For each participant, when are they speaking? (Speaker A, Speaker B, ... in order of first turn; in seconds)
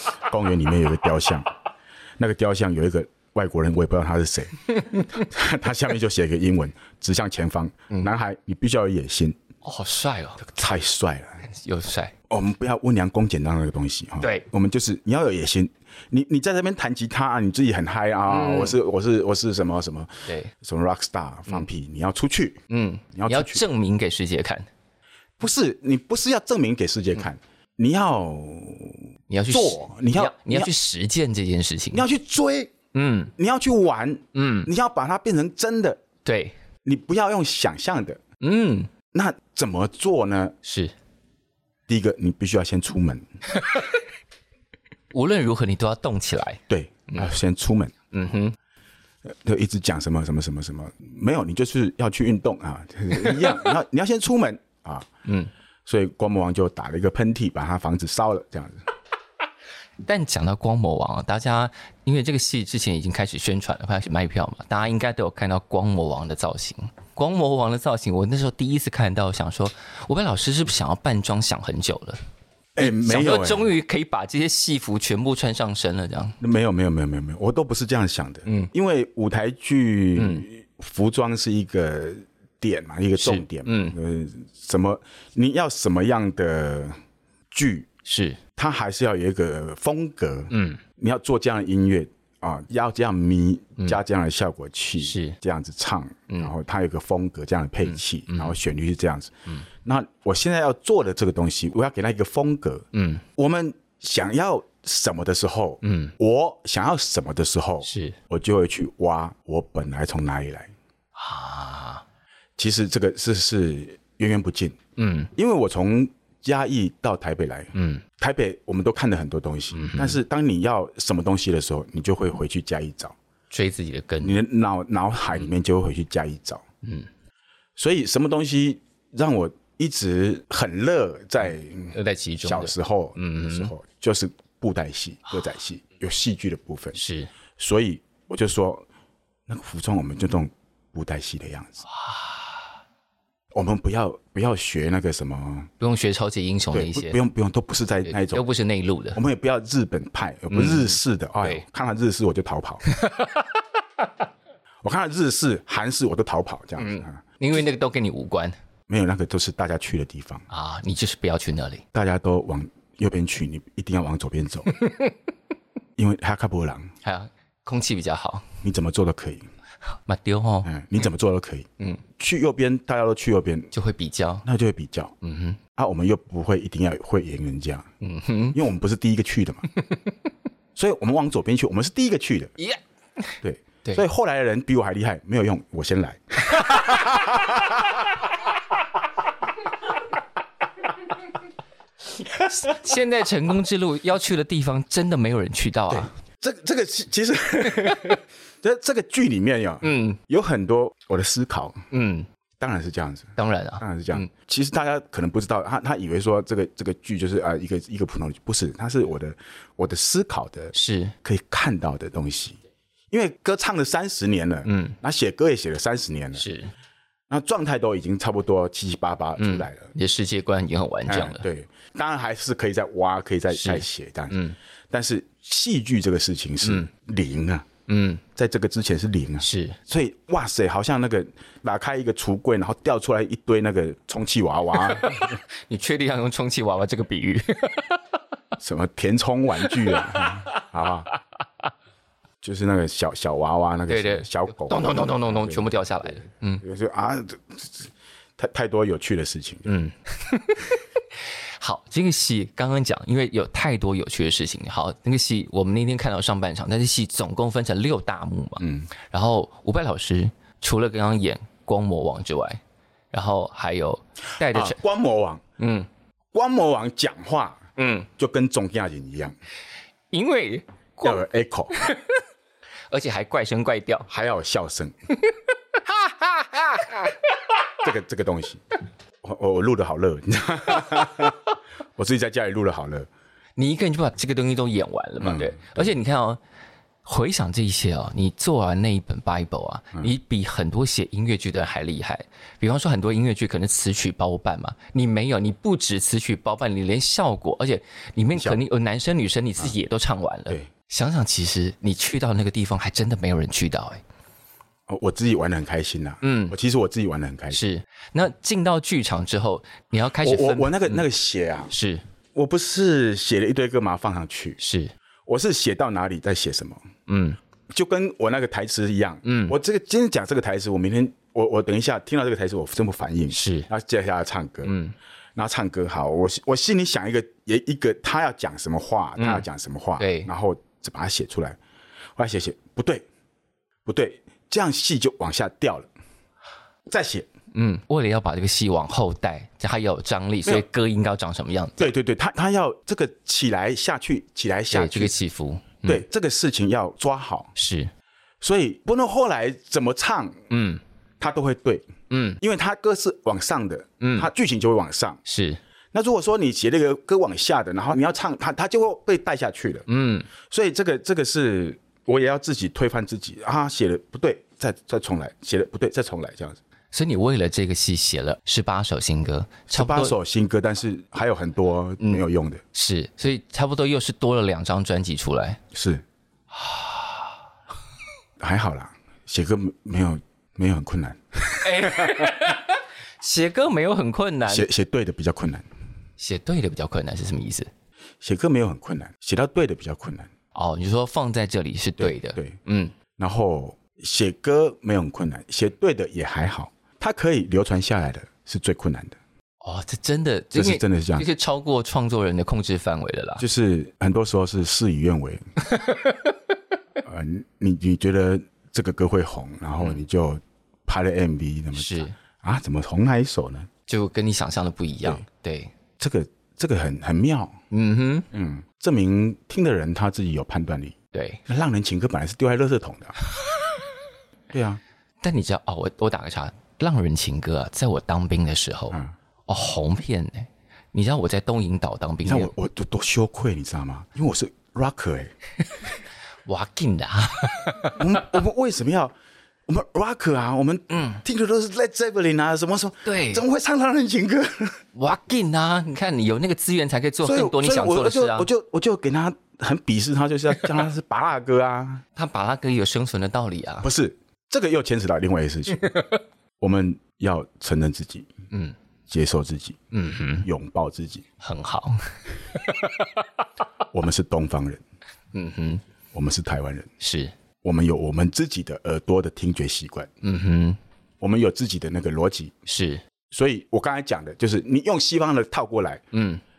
Speaker A: 0.2-1.5, 2.2-9.4, 10.4-11.4, 12.3-22.6, 23.1-23.6, 25.4-30.7, 31.9-32.7, 33.4-36.0, 36.8-38.2, 39.1-40.6, 41.9-43.2, 46.7-48.0, 49.3-55.1, 55.9-58.8, 72.8-73.7, 76.4-87.0, 87.5-87.9, 88.6-99.3, 99.8-102.9, 103.4-110.7, 112.6-114.8, 115.3-123.2, 124.2-126.6, 127.8-137.0, 137.6-138.9, 139.5-141.8, 143.5-145.7, 146.7-148.5, 149.1-152.8, 154.8-157.2, 158.9-160.4, 161.9-164.7, 166.0-166.9, 168.6-169.5, 170.7-173.7, 174.4-175.1, 175.8-177.9, 178.5-179.7, 180.8-182.5, 183.4-188.2, 195.9-201.8, 202.6-212.6, 213.1-216.5, 217.3-219.9, 221.1-227.7, 228.3-235.4, 238.6-241.1, 242.4-249.7, 258.6-258.9, 264.4-265.4, 266.3-267.6, 268.2-269.4, 271.0-271.7, 274.1-274.9, 277.8-278.6, 279.2-283.1, 285.2-285.9, 298.3-298.6, 304.9-307.6, 310.2-311.7, 312.4-314.6, 315.3-316.8, 317.7-324.8, 325.4-331.6, 332.2-333.1, 333.9-335.9, 336.9-337.3, 341.8-345.1, 345.8-347.5, 348.4-350.4, 351.2-351.9, 352.4-355.2, 355.9-359.9, 360.4-366.6, 369.7-372.6, 375.7-376.0, 378.4-382.4, 384.5-385.7, 388.2-390.3, 392.0-392.6, 393.2-399.2, 400.5-401.3, 403.4-405.4, 407.0-413.7, 416.0-417.6, 418.3-421.0, 421.5-423.1, 424.5-424.8, 432.2-435.3, 437.9-439.1, 439.7-444.8, 447.2-452.0, 453.8-455.9, 456.6-458.3, 459.1-459.8, 460.4-461.3, 463.9-464.8, 466.1-466.9, 467.6-470.1, 471.2-472.5, 473.3-476.1
Speaker B: 4.7-5.2, 9.6-10.5, 11.4-12.1, 14.2-14.5, 18.3-18.8, 20.3-20.5, 22.7-24.7, 29.3-32.1, 32.9-33.3, 34.3-34.7, 36.2-36.5, 38.4-38.9, 40.6-40.9, 43.5-43.9, 45.1-47.3, 48.1-48.5, 53.1-53.6, 55.2-55.5, 60.0-72.2, 72.8-76.4, 78.5-78.7, 80.2-80.5, 83.2-84.0, 88.0-88.4, 90.5-90.8, 95.0-95.4, 97.9-98.6, 102.9-103.2, 105.8-106.1, 107.8-108.2, 111.2-112.0, 115.0-115.3, 117.7-118.0, 119.7-120.2, 123.5-124.4, 126.8-127.1, 131.9-133.7, 136.9-137.3, 142.0-142.4, 145.8-147.2, 148.1-149.2, 150.5-151.6, 152.9-153.5, 156.8-158.6, 160.5-161.8, 164.7-165.1, 167.0-168.5, 170.0-170.7, 173.7-174.5, 175.2-175.6, 178.0-178.6, 192.6-196.1, 199.8-200.2, 201.9-202.3, 203.4-204.3, 210.7-211.2, 214.7-215.0, 216.4-216.7, 219.4-221.5, 223.5-224.6, 226.6-226.9, 227.9-228.2, 229.4-229.8, 234.8-238.0, 239.7-240.6, 243.9-246.6, 249.7-250.8, 251.6-262.6, 263.1-264.8, 265.6-265.9, 267.8-268.1, 270.1-271.2, 271.7-272.1, 272.9-274.1, 275.2-277.2, 283.6-286.4, 287.1-304.0, 306.2-306.6, 307.5-311.1, 311.7-312.0, 314.6-314.9, 317.1-317.4, 319.2-319.6, 323.3-323.7, 324.6-324.9, 329.2-329.4, 330.0-330.3, 337.5-341.9, 344.7-346.0, 347.6-347.9, 350.5-350.8, 352.1-352.4, 354.0-354.3, 355.2-355.6, 359.9-360.3, 366.9-370.2, 372.7-375.6, 376.5-377.2, 381.6-384.7, 386.2-387.7, 390.6-392.9, 399.6-403.4, 405.7-406.3, 411.8-412.1, 413.9-415.7, 417.7-418.3, 421.1-421.4, 425.2-432.5, 436.5-438.2, 440.9-441.2, 443.1-443.4, 444.9-448.5, 452.2-453.9, 455.8-456.1, 459.9-460.5, 461.4-463.1, 465.3-465.8, 467.0-467.3, 470.2-470.8, 472.7-473.0, 476.1-476.4